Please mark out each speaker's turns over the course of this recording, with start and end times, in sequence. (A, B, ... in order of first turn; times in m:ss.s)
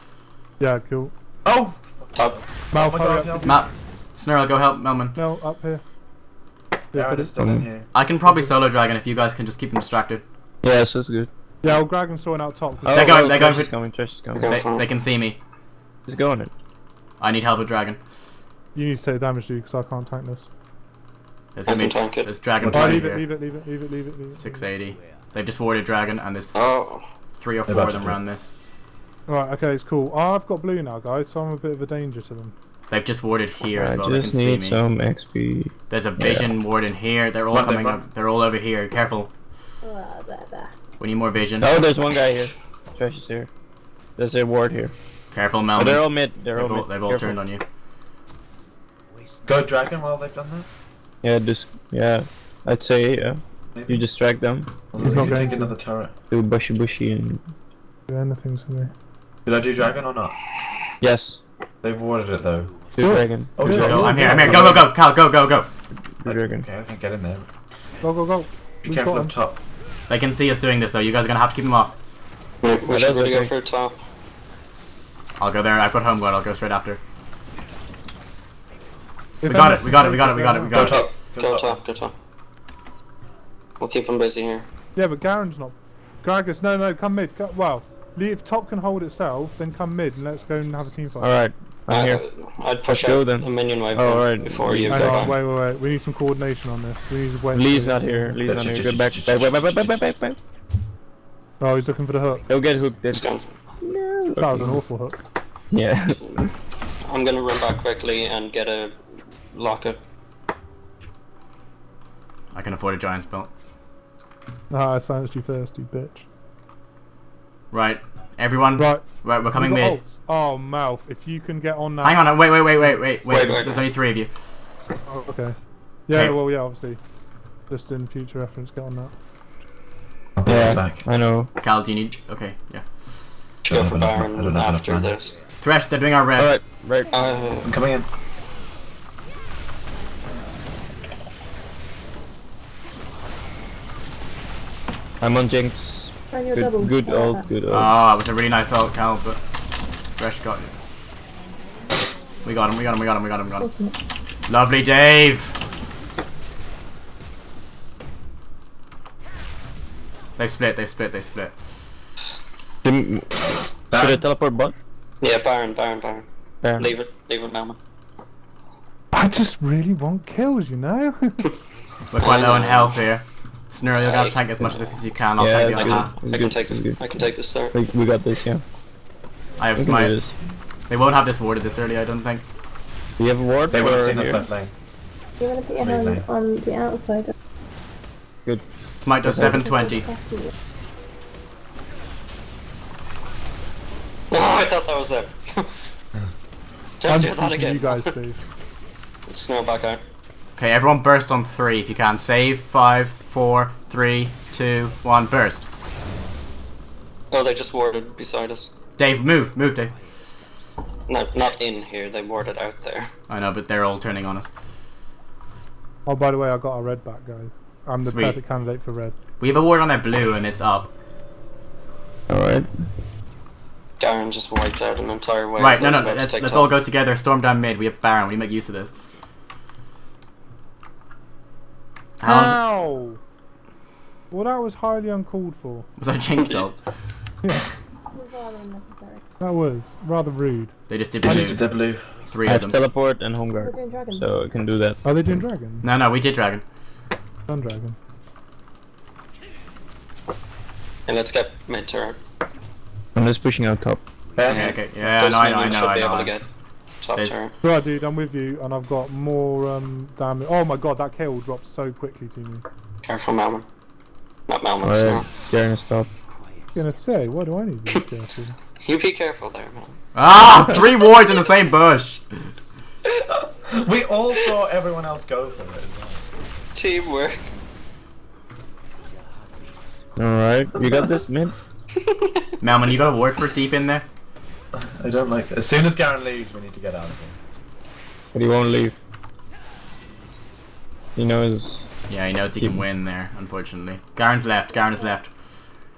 0:00.6-0:01.1 A
0:01.4-0:03.6 B
0:02.7-0:03.6 A
0:03.5-0:05.2 C
0:05.2-0:05.8 A
0:06.9-0:07.3 A
0:06.9-0:07.9 B
0:07.4-0:07.6 D
0:07.9-0:10.2 C
0:08.2-0:08.5 A
0:10.6-0:11.3 D
0:11.6-0:13.4 A
0:12.8-0:14.6 D
0:12.9-0:13.7 C
0:14.4-0:14.9 E
0:14.5-0:15.4 C
0:16.1-0:16.5 D
0:17.2-0:18.0 C
0:18.8-0:20.5 A
0:21.6-0:23.2 C
0:21.7-0:22.3 E
0:22.6-0:23.1 B
0:22.7-0:24.6 A
0:24.4-0:26.6 C
0:26.6-0:27.0 E
0:27.4-0:28.5 C
0:27.7-0:28.2 B
0:29.3-0:32.5 A
0:32.9-0:34.8 C
0:33.8-0:36.5 D
0:35.9-0:39.3 C
0:37.5-0:38.0 B
0:39.8-0:40.8 F
0:41.0-0:41.8 C
0:41.6-0:43.5 D
0:44.2-0:44.9 D
0:45.3-0:47.6 C
0:45.8-0:47.4 D
0:49.5-0:50.7 B
0:51.2-0:55.6 D
0:53.8-0:54.0 B
0:54.9-0:56.1 B
0:55.0-0:55.7 A
0:56.3-0:57.4 D
0:58.1-0:58.9 A
0:59.5-1:00.3 B
1:01.0-1:01.4 D
1:01.8-1:02.7 B
1:03.0-1:04.9 D
1:03.0-1:04.6 A
1:03.6-1:04.9 B
1:03.7-1:05.7 C
1:06.2-1:06.7 D
1:06.2-1:07.5 B
1:08.0-1:09.3 A
1:08.8-1:09.6 B
1:10.1-1:12.0 C
1:12.6-1:14.0 E
1:12.9-1:13.5 D
1:15.4-1:17.0 C
1:19.4-1:20.9 A
1:19.4-1:21.0 C
1:20.7-1:21.8 B
1:20.8-1:22.1 E
1:23.8-1:24.7 E
1:25.0-1:31.4 A
1:31.2-1:32.2 D
1:31.9-1:35.4 E
1:32.9-1:35.4 D
1:34.9-1:38.4 A
1:37.5-1:40.4 D
1:38.4-1:39.9 B
1:41.6-1:42.5 A
1:42.5-1:43.3 D
1:43.1-1:43.4 E
1:43.9-1:44.3 F
1:44.0-1:44.8 D
1:44.4-1:45.2 A
1:45.7-1:46.5 D
1:47.0-1:49.0 E
1:49.5-1:50.0 E
1:52.5-1:53.5 C
1:54.7-1:56.2 A
1:57.7-2:00.0 C
1:58.8-2:02.3 A
2:02.0-2:04.3 C
2:03.3-2:03.9 E
2:05.1-2:05.6 A
2:06.1-2:07.0 A
2:07.7-2:09.1 A
2:10.4-2:11.0 B
2:10.5-2:11.5 D
2:11.6-2:12.8 C
2:13.6-2:15.4 E
2:13.7-2:15.2 B
2:15.6-2:16.5 C
2:16.4-2:17.3 D
2:17.1-2:17.7 E
2:17.6-2:18.1 B
2:25.2-2:27.9 D
2:26.3-2:27.5 F
2:27.7-2:29.4 C
2:30.2-2:30.7 C
2:32.4-2:33.7 C
2:33.6-2:33.9 F
2:34.5-2:35.5 C
2:40.4-2:41.5 C
2:42.8-2:44.8 D
2:43.9-2:44.2 B
2:45.2-2:46.3 E
2:46.6-2:46.9 D
2:46.8-2:47.8 E
2:49.1-2:51.5 A
2:52.1-2:56.2 C
2:52.2-2:53.0 E
2:54.0-2:54.9 E
2:55.4-2:58.6 D
2:55.8-2:57.8 E
2:59.6-3:00.2 C
2:59.8-3:00.3 D
3:00.9-3:02.4 C
3:03.2-3:04.5 D
3:03.7-3:04.7 B
3:05.4-3:07.3 F
3:05.8-3:06.2 B
3:09.0-3:10.1 C
3:09.2-3:09.7 D
3:09.6-3:10.5 F
3:14.3-3:15.8 E
3:17.0-3:18.1 E
3:17.1-3:18.4 A
3:19.3-3:20.0 E
3:20.6-3:25.7 C
3:27.3-3:28.7 E
3:29.0-3:29.9 C
3:31.1-3:33.1 E
3:33.3-3:34.5 C
3:36.1-3:39.2 A
3:38.0-3:38.4 C
3:39.4-3:40.9 C
3:42.3-3:42.7 D
3:44.0-3:46.7 E
3:45.6-3:48.9 C
3:52.2-3:52.6 C
3:52.2-3:53.2 A
3:54.3-3:55.9 A
3:56.0-3:56.8 C
3:57.4-3:57.7 A
3:58.1-3:59.2 F
3:59.4-4:00.7 A
4:00.9-4:01.6 C
4:01.2-4:02.1 B
4:01.3-4:01.6 A
4:02.3-4:02.8 C
4:02.4-4:05.0 D
4:03.6-4:04.3 F
4:05.0-4:05.9 A
4:05.8-4:06.6 C
4:07.5-4:08.0 A
4:11.1-4:12.2 E
4:13.2-4:14.0 D
4:14.4-4:14.8 B
4:14.5-4:16.3 C
4:14.5-4:16.4 E
4:17.0-4:17.6 E
4:17.6-4:22.6 A
4:23.0-4:23.7 E
4:24.5-4:25.3 E
4:24.8-4:26.1 D
4:26.8-4:28.6 A
4:28.8-4:30.0 E
4:30.2-4:32.5 C
4:33.6-4:36.2 B
4:36.8-4:37.5 E
4:40.2-4:41.5 D
4:41.9-4:42.5 E
4:42.6-4:44.1 C
4:44.7-4:47.4 B
4:48.3-4:49.0 D
4:51.2-4:51.9 D
4:52.1-4:55.3 C